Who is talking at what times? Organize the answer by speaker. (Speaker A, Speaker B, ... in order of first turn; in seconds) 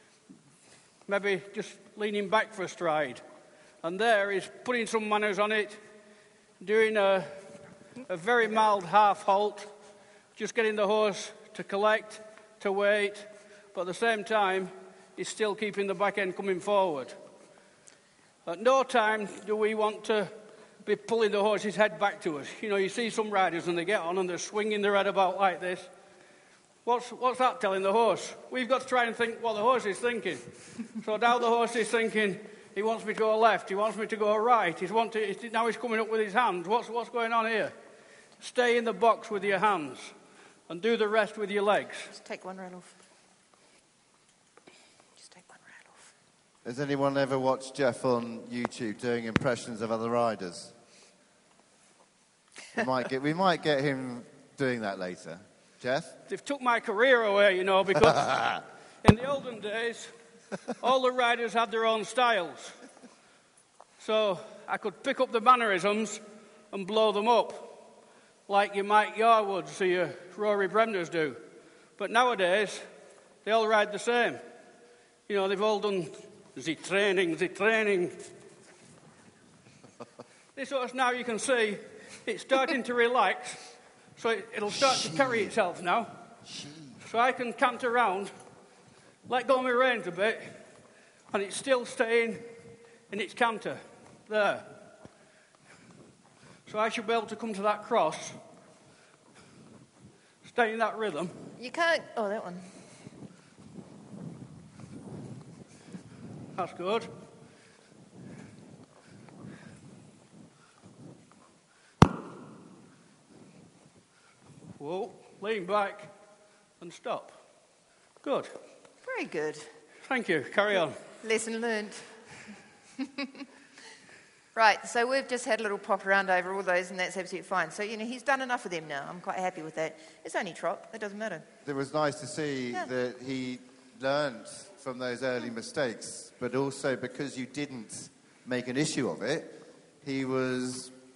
Speaker A: 1.1-3.2, 3.8-5.8, 6.6-7.3, 8.1-9.7, 10.4-17.2, 18.5-20.3, 20.8-25.9, 26.9-37.7, 38.4-40.1, 40.7-42.1, 56.3-60.1, 60.7-62.8, 64.0-67.8, 68.5-71.4, 72.0-72.8, 73.5-74.4, 75.3-78.2, 80.5-83.6, 84.2-86.1, 87.0-88.3, 89.3-90.6, 91.3-92.5, 93.1-94.7, 96.7-98.4, 100.4-101.3, 106.5-107.1, 114.8-116.1, 116.8-117.4, 118.2-118.5, 120.1-121.0
Speaker B: 42.1-43.0, 45.2-46.0, 101.6-102.8, 119.0-119.7, 121.2-122.2, 123.0-123.5, 124.5-131.5
Speaker C: 46.6-50.7, 52.7-56.1, 84.9-85.5, 86.5-87.0, 131.7-140.9